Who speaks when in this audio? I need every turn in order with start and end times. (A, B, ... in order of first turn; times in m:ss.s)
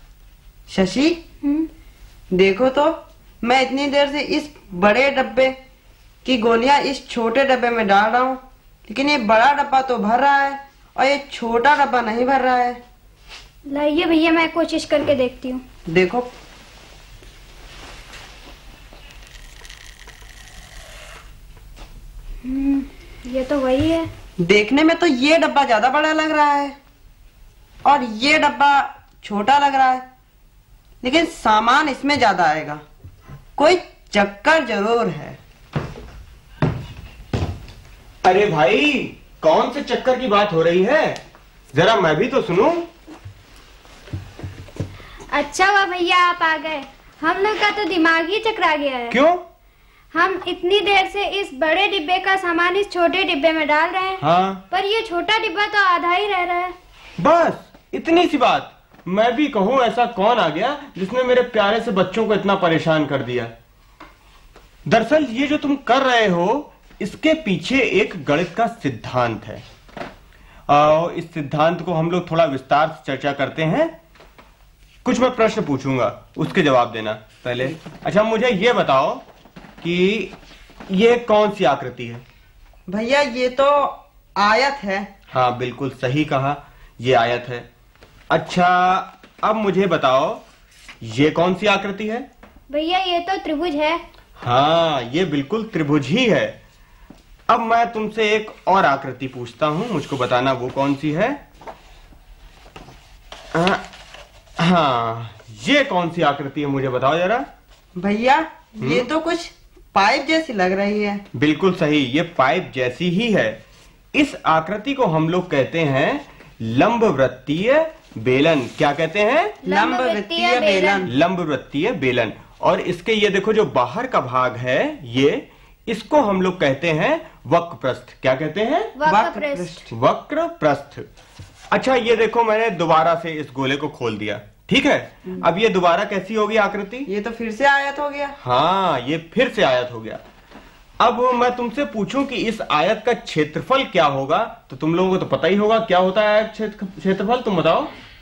0:00.7-0:01.2 A
0:01.4-0:01.7 B
0:02.3-0:05.5 A
0:06.2-0:12.8 A
0:13.7-0:15.6 B
0:15.9-0:16.3 A
0:22.4-0:24.1 B
0:24.4-0:26.8 A
0:27.8-0:30.0 A
0:31.0-0:32.8 A
0:33.6-0:35.4 A
0:38.2-0:41.2 C
0:41.7-0:42.9 C
0:45.3-0:49.2 B
0:49.1-0:49.4 C
0:50.1-0:56.7 B
0:54.2-0:54.6 C
0:57.2-1:03.5 C
1:04.8-1:09.6 C
1:10.7-1:13.9 C
1:15.0-1:19.2 C
1:19.8-1:20.3 C
1:20.9-1:22.2 C
1:22.9-1:25.1 A
1:25.3-1:27.7 C
1:28.3-1:30.4 C
1:31.0-1:32.3 C
1:32.7-1:34.0 B
1:34.4-1:36.6 C
1:37.5-1:41.4 C
1:43.5-1:43.8 C
1:44.6-1:47.5 C
1:48.0-1:51.2 A
1:48.8-1:49.1 C
1:51.3-1:53.6 C
1:54.1-1:59.6 C
1:59.6-2:01.1 B
1:59.6-2:01.1 A
2:01.0-2:08.9 C
2:09.0-2:09.8 B
2:09.0-2:09.8 A
2:09.9-2:11.0 C
2:11.7-2:17.1 C
2:17.0-2:18.3 A
2:18.4-2:20.2 C
2:21.0-2:27.9 C